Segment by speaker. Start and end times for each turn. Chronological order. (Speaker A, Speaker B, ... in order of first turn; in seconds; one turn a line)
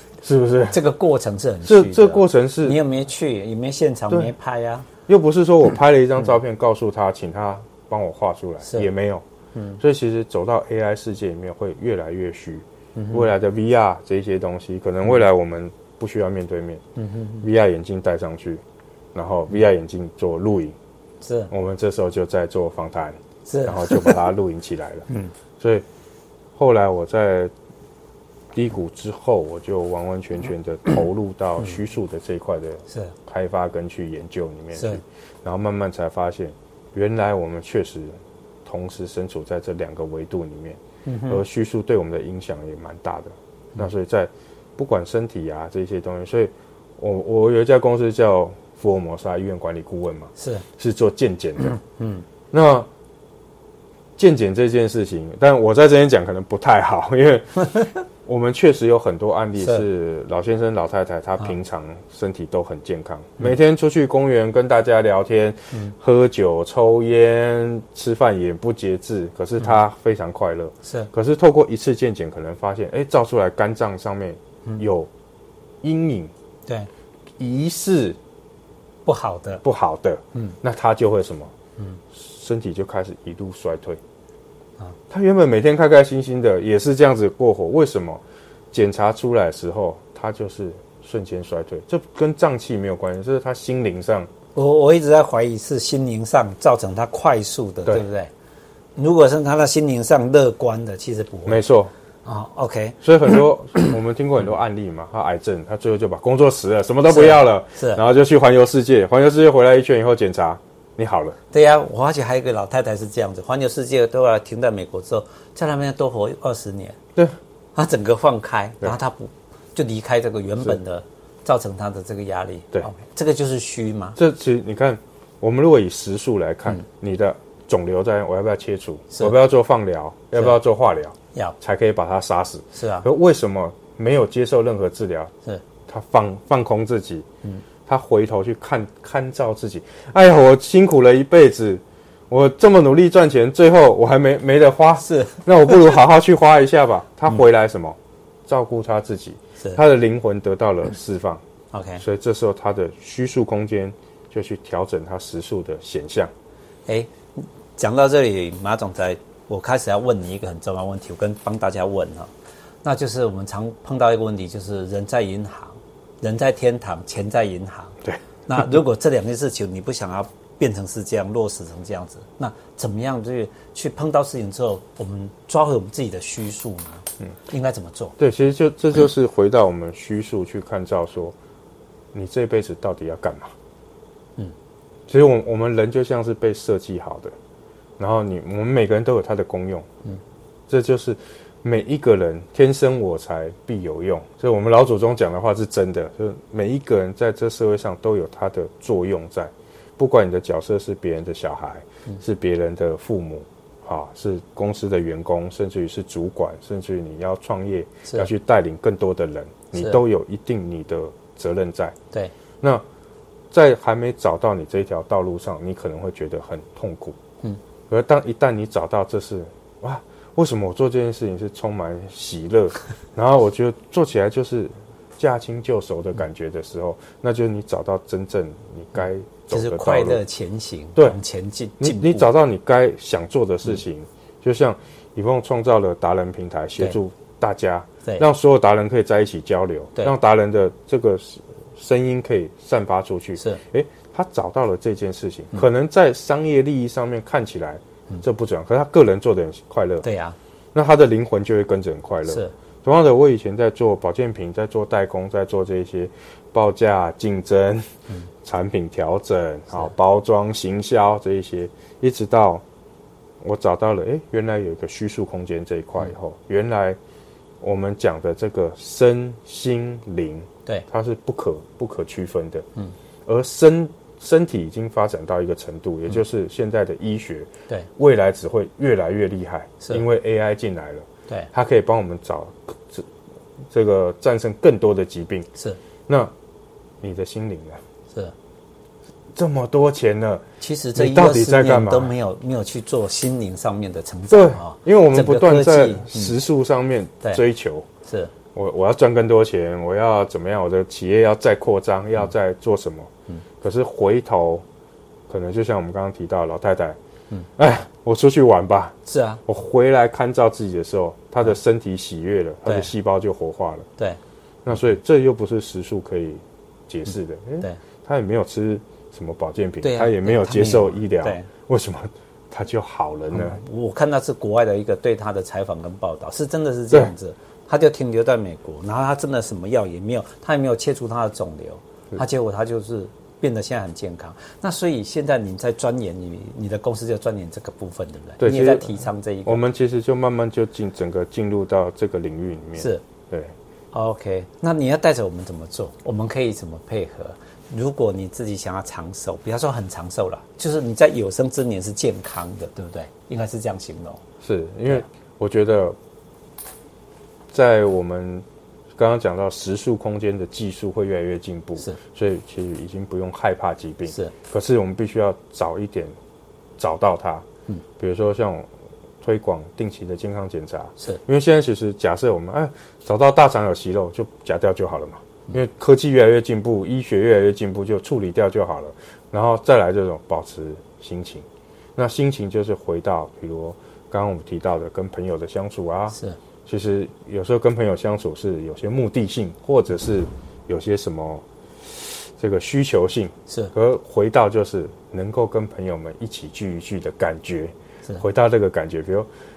Speaker A: 0.2-0.8
Speaker B: 0.7-4.9
Speaker A: 1.6-2.8
Speaker A: 5.1-9.2
Speaker A: 9.8-16.8
Speaker B: 12.9-13.3
Speaker B: 17.0-17.4
Speaker A: 17.4-18.6
Speaker A: 19.1-20.8
Speaker B: 21.2-21.5
Speaker A: 21.5-25.1
Speaker B: 23.4-24.2
Speaker A: 25.6-25.9
Speaker A: 26.6-27.5
Speaker A: 28.5-38.1
Speaker B: 34.8-35.0
Speaker A: 38.6-51.8
Speaker B: 41.0-41.4
Speaker B: 50.4-50.6
Speaker B: 52.0-52.2
Speaker A: 52.5-52.9
Speaker A: 54.2-75.1
Speaker B: 59.6-59.8
Speaker B: 70.8-71.1
Speaker A: 75.8-76.3
Speaker A: 77.4-78.2
Speaker B: 79.0-79.6
Speaker A: 79.6-81.5
Speaker A: 82.1-84.0
Speaker A: 85.1-94.3
Speaker B: 94.5-98.3
Speaker B: 99.0-101.6
Speaker A: 101.5-101.9
Speaker B: 102.2-103.0
Speaker A: 103.0-111.4
Speaker B: 107.1-108.0
Speaker B: 111.5-117.0
Speaker B: 117.8-124.2
Speaker A: 124.2-135.3
Speaker B: 132.7-133.1
Speaker A: 135.9-137.2
Speaker A: 137.8-151.4
Speaker B: 145.0-145.7
Speaker B: 151.7-152.0
Speaker A: 152.0-156.3
Speaker B: 156.9-162.3
Speaker B: 162.8-178.2
Speaker A: 178.2-181.3
Speaker A: 182.1-183.5
Speaker A: 185.1-187.3
Speaker A: 188.0-189.9
Speaker A: 190.7-211.9
Speaker A: 213.5-217.2
Speaker A: 217.9-230.2
Speaker B: 229.5-232.2
Speaker A: 231.8-250.0
Speaker B: 250.0-250.3
Speaker A: 250.7-257.9
Speaker B: 252.3-252.5
Speaker A: 258.4-262.6
Speaker A: 263.4-267.0
Speaker A: 267.6-272.6
Speaker A: 273.2-283.1
Speaker A: 283.7-285.5
Speaker A: 286.1-286.3
Speaker A: 287.0-287.8
Speaker A: 289.3-290.4
Speaker B: 290.6-296.4
Speaker A: 290.9-292.1
Speaker A: 294.3-297.9
Speaker B: 298.0-298.3
Speaker A: 298.5-303.1
Speaker A: 303.6-304.6
Speaker A: 305.3-307.0
Speaker A: 307.6-308.9
Speaker B: 309.1-309.4
Speaker A: 309.4-313.9
Speaker A: 314.6-323.6
Speaker B: 319.8-321.5
Speaker B: 323.3-339.6
Speaker A: 338.4-343.5
Speaker B: 342.8-343.0
Speaker B: 343.9-354.2
Speaker A: 354.4-355.9
Speaker A: 357.5-358.4
Speaker A: 359.0-366.1
Speaker A: 366.8-367.4
Speaker A: 368.0-368.7
Speaker A: 369.2-399.3
Speaker B: 386.1-386.4